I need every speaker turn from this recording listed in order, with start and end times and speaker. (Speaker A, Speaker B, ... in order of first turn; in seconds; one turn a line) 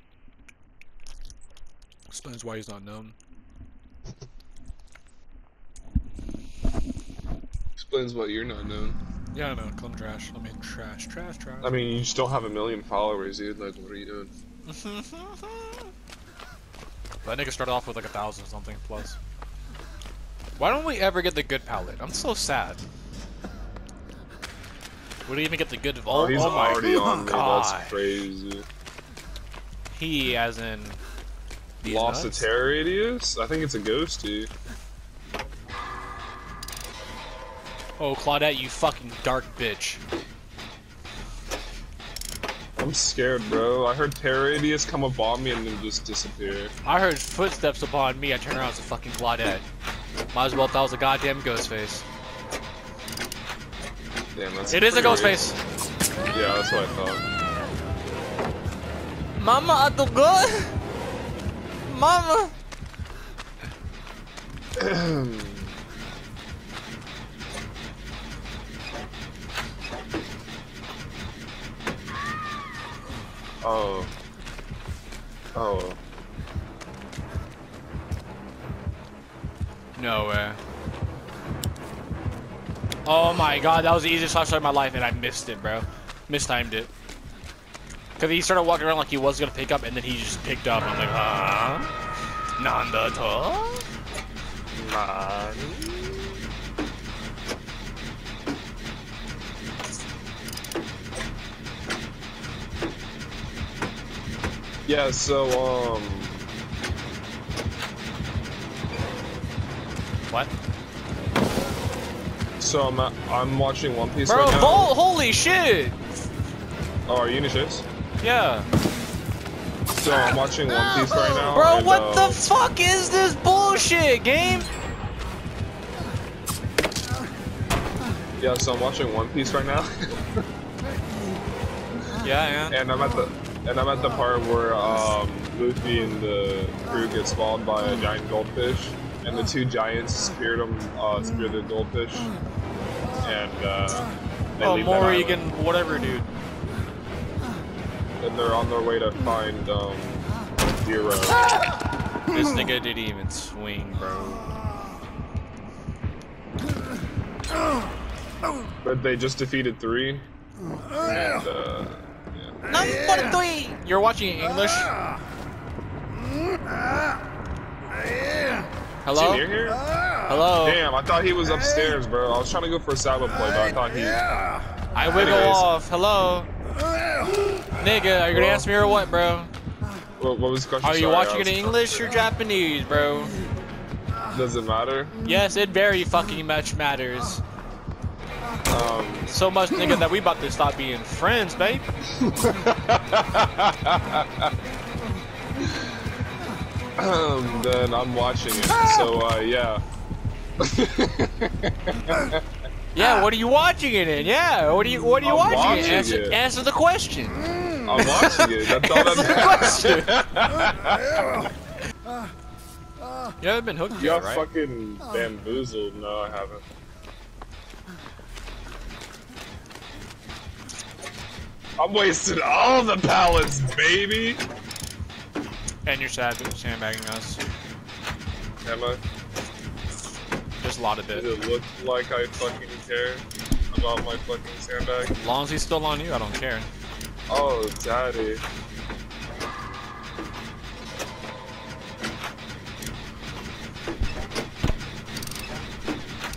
Speaker A: 2.1-3.1
Speaker B: 7.8-9.0
Speaker A: 9.3-11.8
Speaker B: 11.6-14.3
Speaker A: 14.7-15.9
Speaker A: 17.2-19.2
Speaker A: 20.6-22.8
Speaker A: 25.3-28.2
Speaker B: 26.1-28.7
Speaker A: 29.9-31.0
Speaker A: 31.8-32.5
Speaker B: 31.8-34.5
Speaker A: 38.0-40.0
Speaker B: 42.8-46.7
Speaker A: 46.9-49.6
Speaker A: 50.3-52.0
Speaker B: 54.4-55.4
Speaker A: 54.7-55.6
Speaker B: 56.3-57.2
Speaker A: 59.4-60.8
Speaker A: 61.9-62.5
Speaker B: 64.8-65.7
Speaker B: 73.6-74.1
Speaker B: 75.5-76.0
Speaker A: 80.0-80.6
Speaker A: 83.0-86.9
Speaker A: 88.2-91.9
Speaker A: 92.6-93.9
Speaker B: 94.8-96.2
Speaker B: 104.9-106.5
Speaker B: 112.6-114.9
Speaker A: 114.3-116.0
Speaker B: 117.1-117.8
Speaker A: 118.2-118.7
Speaker B: 120.0-122.4
Speaker A: 121.5-124.7
Speaker B: 128.4-130.4
Speaker A: 132.2-132.8
Speaker B: 132.7-142.3
Speaker B: 143.2-145.4
Speaker A: 144.6-146.3
Speaker B: 148.2-150.3
Speaker B: 150.8-151.4
Speaker A: 152.3-154.5
Speaker B: 158.8-160.3
Speaker B: 161.0-162.6
Speaker A: 162.7-164.9
Speaker A: 169.0-169.5
Speaker B: 169.1-169.8
Speaker A: 170.3-170.8
Speaker B: 170.6-174.2
Speaker A: 174.9-176.5
Speaker B: 175.2-175.7
Speaker A: 177.8-179.5
Speaker B: 178.3-178.7
Speaker B: 180.2-182.1
Speaker A: 180.8-183.3
Speaker B: 184.3-185.1
Speaker A: 185.2-187.4
Speaker B: 188.7-189.3
Speaker A: 189.3-191.9
Speaker B: 192.2-194.5
Speaker B: 197.0-199.8
Speaker B: 200.6-202.4
Speaker A: 202.9-210.3
Speaker B: 205.2-206.4
Speaker B: 207.8-211.2
Speaker A: 213.4-214.4
Speaker B: 214.0-216.6
Speaker B: 221.8-224.4
Speaker A: 225.9-227.4
Speaker B: 228.6-229.0
Speaker A: 230.6-231.3
Speaker B: 231.1-235.2
Speaker A: 235.2-236.7
Speaker B: 237.3-238.4